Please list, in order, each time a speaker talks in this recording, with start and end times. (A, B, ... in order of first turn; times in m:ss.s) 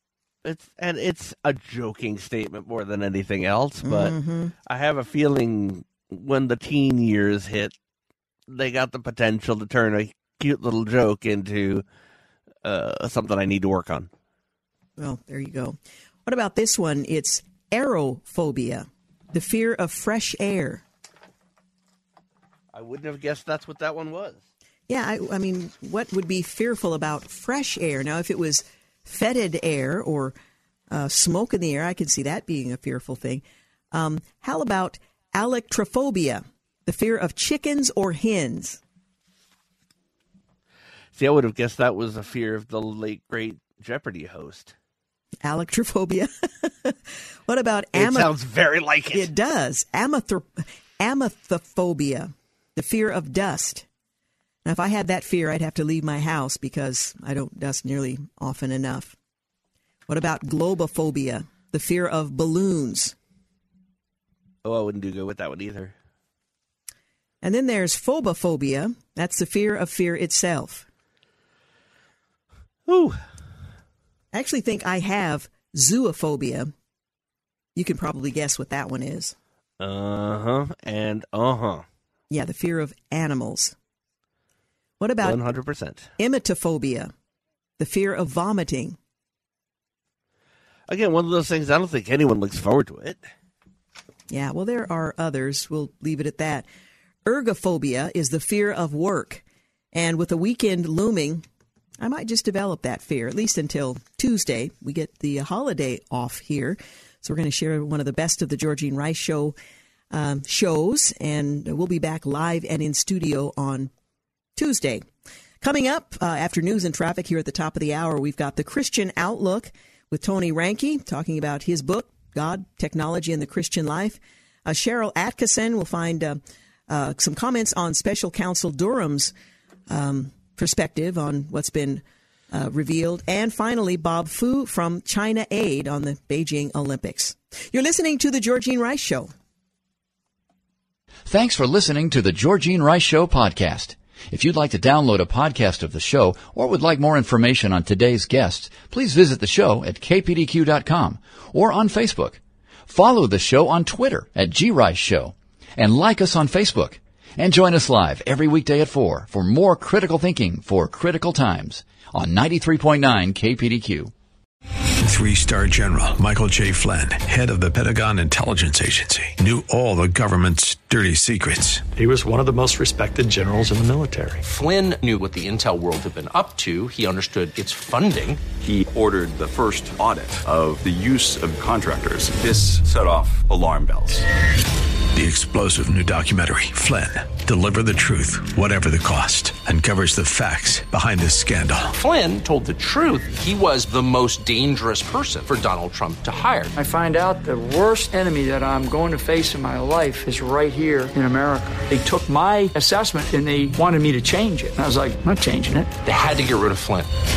0:00.4-0:04.1 A
0:03.8-0:04.5 B
0:04.6-0:07.7 A
0:08.5-0:11.8 A
0:12.6-0:14.1 A
0:15.0-0:20.8 B
0:22.7-0:24.4 A
0:24.9-0:30.3 B
0:30.9-0:38.8 B
0:41.1-0:44.7 A
0:45.4-0:48.3 B
0:48.0-0:49.3 A
0:49.1-0:53.9 B
0:54.6-0:59.2 B
1:00.1-1:03.1 B
1:04.6-1:05.9 A
1:07.4-1:10.9 B
1:12.9-1:13.2 A
1:14.3-1:16.7 B
1:17.8-1:19.4 B
1:19.8-1:21.9 A
1:22.3-1:23.7 B
1:25.0-1:25.4 B
1:25.2-1:26.1 A
1:26.2-1:27.1 B
1:27.8-1:29.0 B
1:30.9-1:33.2 A
1:34.3-1:36.6 B
1:37.2-1:41.4 B
1:42.0-1:49.6 B
1:50.1-1:53.9 B
1:54.6-1:55.0 B
1:55.6-2:09.3 B
2:09.9-2:19.3 B
2:21.3-2:44.1 C
2:45.0-2:51.9 D
2:52.0-2:54.4 E
2:54.4-2:58.4 F
2:58.5-3:04.2 G
3:05.1-3:11.9 D
3:11.9-3:16.7 F
3:16.7-3:25.9 H
3:26.0-3:27.1 F